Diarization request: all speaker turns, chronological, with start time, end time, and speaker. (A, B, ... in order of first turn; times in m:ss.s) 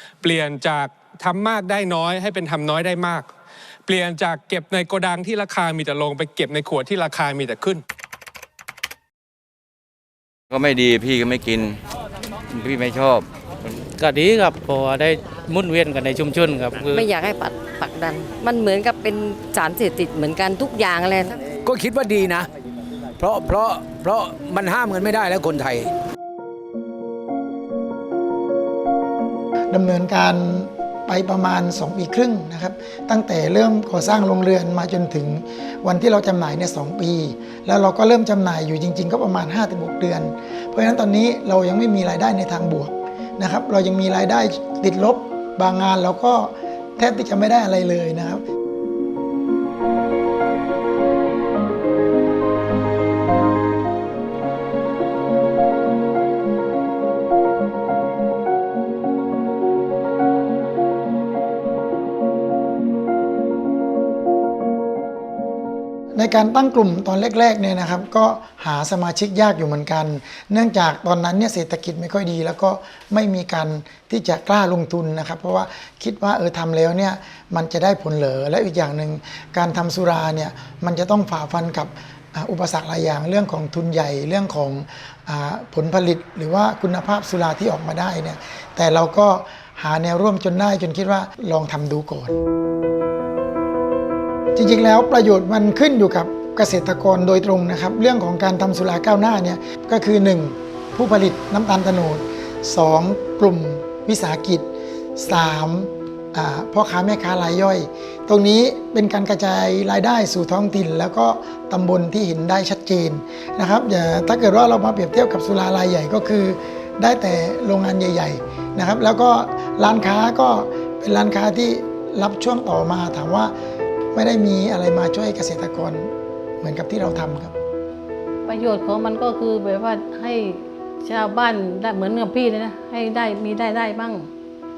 0:00.2-0:03.3 A
0:03.9-0:07.8 A
0:10.5-0:11.8 B
0:12.5-0:13.3 B
0:14.0-0:17.0 C
0:16.9-0:21.4 D
0:21.6-0:22.5 E
0:23.2-0:25.9 E
0:29.7-0:48.4 F
1:06.1-1:32.4 F
1:34.6-2:03.5 F
2:04.1-2:07.5 F
2:08.4-2:14.3 G